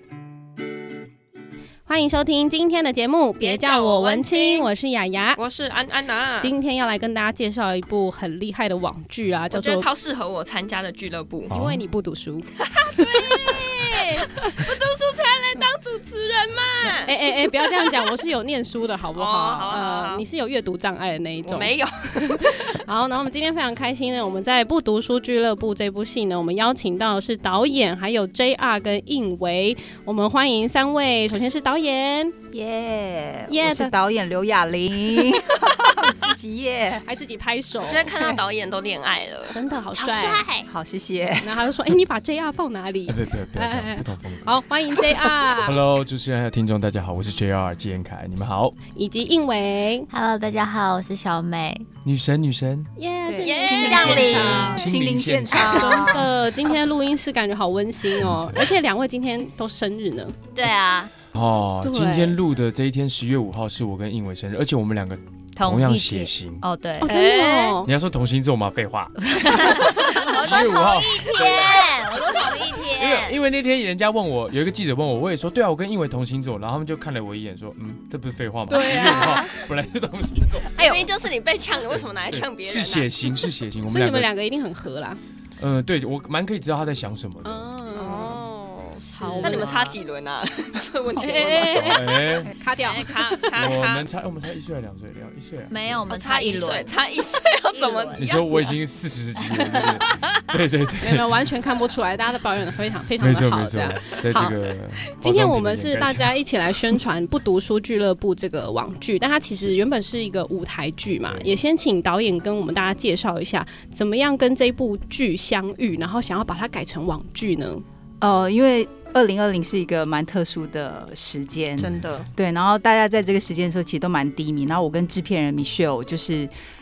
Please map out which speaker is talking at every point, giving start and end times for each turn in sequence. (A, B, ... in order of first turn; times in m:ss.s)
0:01.8-0:05.4 A
0:03.4-0:04.7 B
0:05.4-0:06.6 B
0:06.4-0:09.9 A
0:09.5-0:11.5 B
0:11.5-0:14.4 A
0:11.5-0:11.8 C
0:12.6-0:18.1 B
0:17.0-0:21.7 A
0:19.1-0:20.2 B
0:21.4-0:22.8 B
0:22.2-0:32.3 A
0:32.5-0:37.0 D
0:33.5-0:33.9 A
0:37.0-0:38.3 A
0:37.8-0:40.6 B
0:39.5-0:40.4 A
0:40.3-0:40.6 E
0:40.6-0:41.8 D
0:41.4-0:45.8 A
0:43.1-0:44.6 C
0:45.6-0:48.8 C
0:48.9-0:50.1 A
0:50.1-0:51.9 E
0:52.0-0:52.9 C
0:53.0-0:54.7 A
0:53.2-0:56.3 D
0:53.4-0:54.4 B
0:53.7-0:54.9 E
0:54.3-0:55.8 C
0:55.5-1:00.4 A
0:58.1-0:58.8 C
1:00.5-1:01.1 E
1:01.3-1:06.6 C
1:01.8-1:02.4 A
1:05.6-1:07.1 E
1:07.0-1:07.9 A
1:07.0-1:07.8 B
1:07.8-1:20.9 C
1:09.3-1:13.4 E
1:09.8-1:10.2 B
1:18.7-1:19.4 A
1:18.8-1:19.4 E
1:20.8-1:23.2 B
1:22.2-1:24.3 C
1:23.9-1:25.2 A
1:25.6-1:27.7 C
1:27.4-1:28.4 A
1:27.9-1:32.0 B
1:29.1-1:30.0 E
1:29.1-1:29.7 A
1:31.2-1:33.4 A
1:31.7-1:32.5 C
1:32.8-1:34.0 B
1:33.5-1:36.0 C
1:35.7-1:37.0 E
1:36.0-1:38.7 B
1:37.7-1:38.4 E
1:38.2-1:41.5 C
1:39.6-1:40.4 B
1:41.0-1:44.6 A
1:43.2-1:46.4 C
1:45.2-1:57.8 A
1:58.2-2:06.5 D
2:01.8-2:02.0 C
2:01.8-2:02.3 B